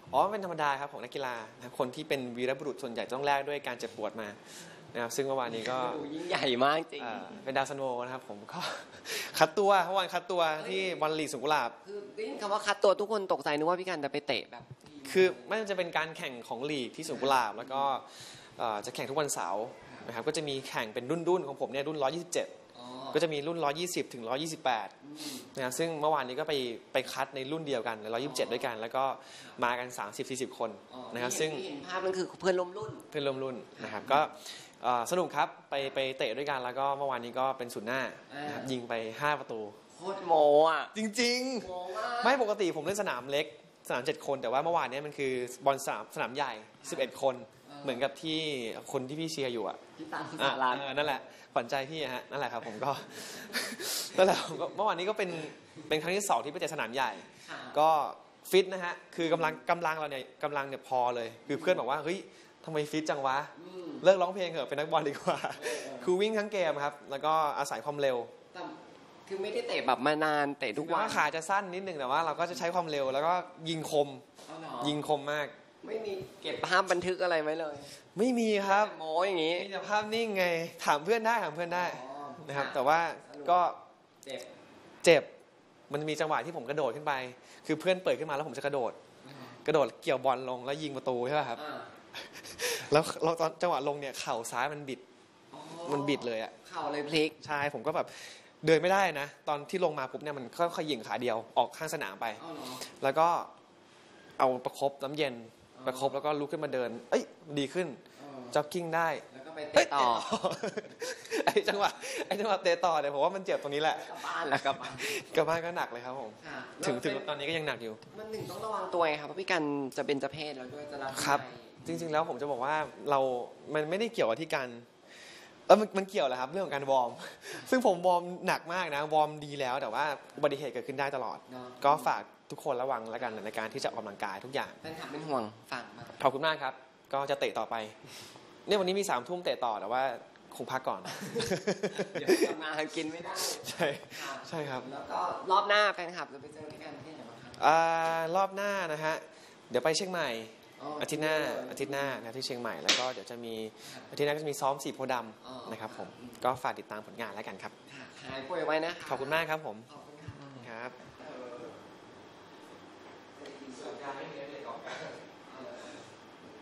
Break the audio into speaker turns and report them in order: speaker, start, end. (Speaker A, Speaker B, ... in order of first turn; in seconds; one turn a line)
Speaker A: 0.1-6.0
Speaker B: 5.5-7.3
Speaker A: 7.0-11.8
Speaker B: 10.5-11.2
Speaker B: 11.8-15.5
Speaker A: 15.1-22.5
Speaker B: 17.1-17.9
Speaker B: 22.7-23.2
Speaker A: 23.1-24.9
Speaker B: 25.0-25.5
Speaker A: 25.5-31.6
Speaker B: 28.2-28.7
Speaker B: 30.9-33.1
Speaker A: 33.1-39.8
Speaker B: 33.8-34.2
Speaker B: 38.3-38.7
Speaker B: 39.9-40.9
Speaker A: 40.9-49.8
Speaker B: 41.6-42.4
Speaker B: 46.8-47.1
Speaker B: 47.6-48.1
Speaker B: 50.0-51.2
Speaker A: 50.4-68.3
Speaker B: 57.4-57.8
Speaker B: 59.2-59.6
Speaker B: 61.5-61.8
Speaker B: 63.5-64.0
Speaker B: 65.5-66.1
Speaker B: 68.5-71.3
Speaker A: 70.7-74.2
Speaker B: 74.5-75.0
Speaker A: 74.8-75.5
Speaker B: 75.8-77.9
Speaker A: 78.1-78.9
Speaker B: 78.6-79.7
Speaker A: 79.5-83.8
Speaker B: 81.7-83.6
Speaker A: 85.0-85.3
Speaker A: 85.9-89.0
Speaker B: 89.2-89.6
Speaker A: 89.6-91.6
Speaker B: 91.5-91.9
Speaker A: 92.2-95.0
Speaker B: 95.5-97.4
Speaker A: 95.8-96.5
Speaker A: 97.4-103.5
Speaker B: 102.4-102.9
Speaker A: 104.4-108.0
Speaker B: 105.7-106.2
Speaker B: 108.2-108.6
Speaker A: 108.5-109.2
Speaker B: 109.3-110.3
Speaker A: 109.7-118.0
Speaker B: 113.9-115.4
Speaker B: 116.4-117.3
Speaker B: 118.1-122.1
Speaker A: 121.1-124.9
Speaker A: 125.7-134.8
Speaker B: 131.5-132.2
Speaker B: 133.2-133.4
Speaker B: 134.8-136.2
Speaker A: 136.2-137.9
Speaker A: 138.7-142.5
Speaker B: 141.2-147.6
Speaker A: 143.3-144.8
Speaker A: 147.6-157.7
Speaker B: 150.8-152.2
Speaker B: 153.8-154.1
Speaker B: 155.4-156.4
Speaker B: 157.8-161.7
Speaker A: 159.1-159.9
Speaker A: 160.6-160.9
Speaker B: 163.4-164.1
Speaker A: 163.9-165.1
Speaker B: 165.4-166.0